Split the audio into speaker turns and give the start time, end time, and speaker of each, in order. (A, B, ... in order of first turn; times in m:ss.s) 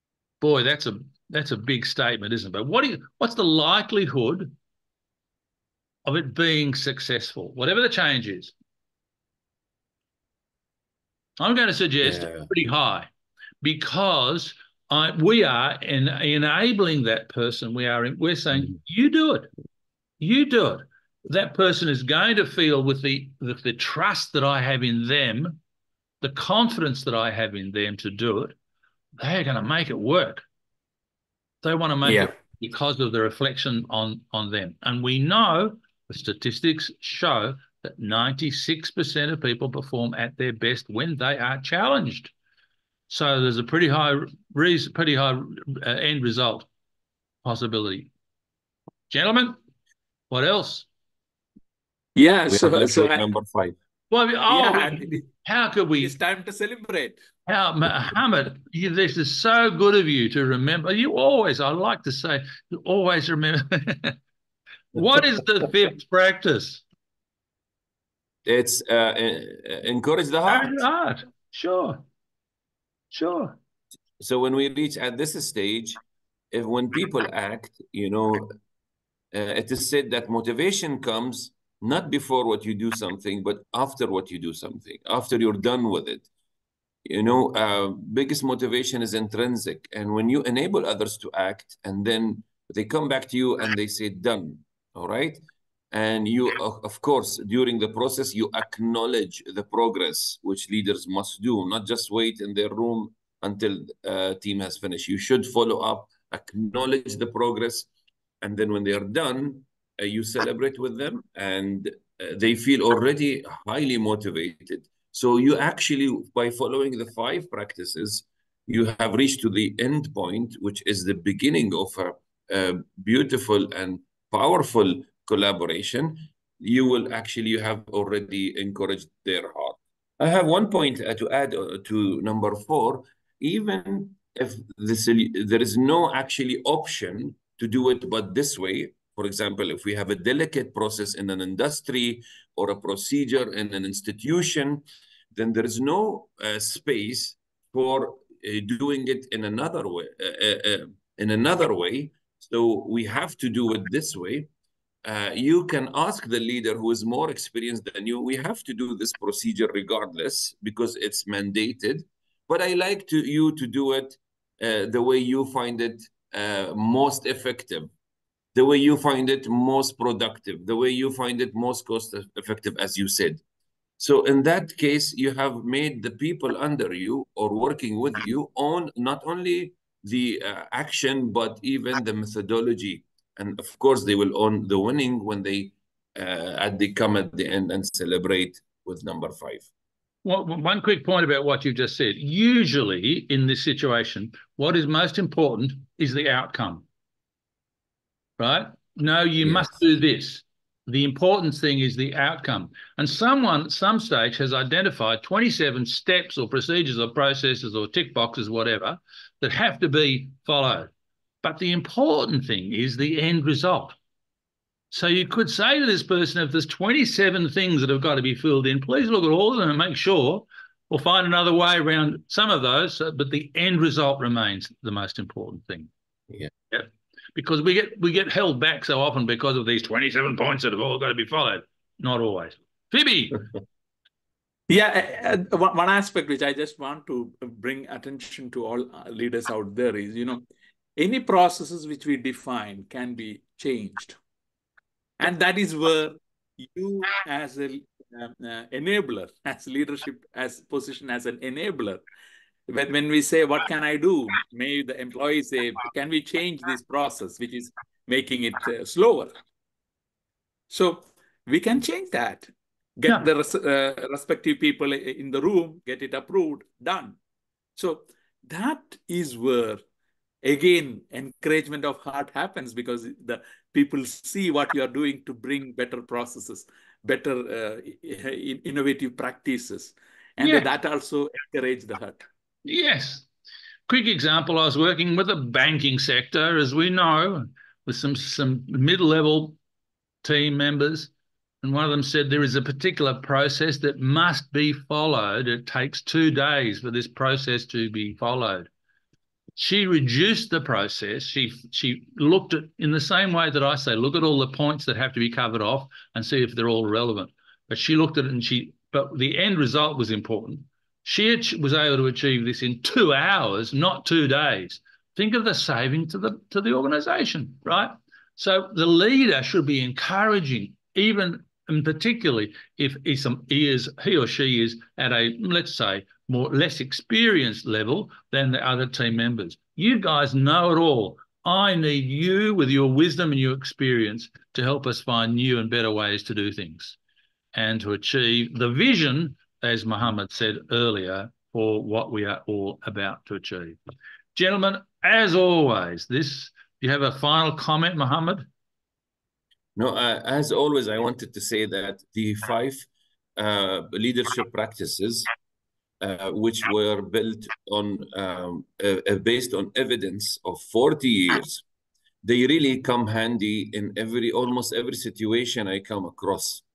0:00.4-0:04.5 A
0:06.0-0:08.5 A
0:11.4-0:13.1 A
0:12.0-0:12.5 B
0:13.6-0:19.5 A
0:20.2-0:25.6 A
0:26.2-0:28.5 A
0:29.2-0:30.4 A
0:31.6-0:42.3 A
0:32.0-0:32.3 C
0:43.1-0:46.7 A
0:47.4-0:48.1 A
0:49.1-0:49.6 A
0:50.3-0:50.9 A
0:52.2-0:53.2 C
0:52.5-0:53.8 B
0:54.1-0:56.1 A
0:54.5-0:55.3 C
0:56.0-0:57.2 C
0:57.5-1:04.2 A
1:04.9-1:06.8 A
1:08.4-1:10.9 B
1:10.5-1:12.0 A
1:13.1-1:13.6 A
1:14.2-1:16.0 B
1:16.5-1:18.5 B
1:19.3-1:26.3 B
1:27.0-1:35.4 B
1:35.9-1:47.9 B
1:48.4-2:34.5 B
2:35.0-2:47.9 B
2:48.5-2:53.4 B
2:54.0-3:09.7 B
3:10.2-3:16.8 A
3:18.4-3:30.9 A
3:19.4-3:19.7 B
3:31.4-3:34.0 A
3:34.9-3:45.9 A
3:46.7-3:53.4 A
3:54.7-4:00.4 C
4:01.0-4:04.2 C
4:05.2-4:12.0 C
4:12.7-4:19.3 C
4:20.7-4:27.2 C
4:27.8-4:29.8 C
4:30.4-4:42.2 C
4:40.4-4:40.7 A
4:42.6-4:43.3 A
4:43.9-4:49.6 A
4:50.2-4:51.1 A
4:51.6-4:58.7 A
4:59.6-5:37.0 A
5:37.5-5:43.8 A
5:44.3-5:48.4 A
5:49.8-5:55.3 B
5:56.0-6:01.6 B
6:02.2-6:06.6 B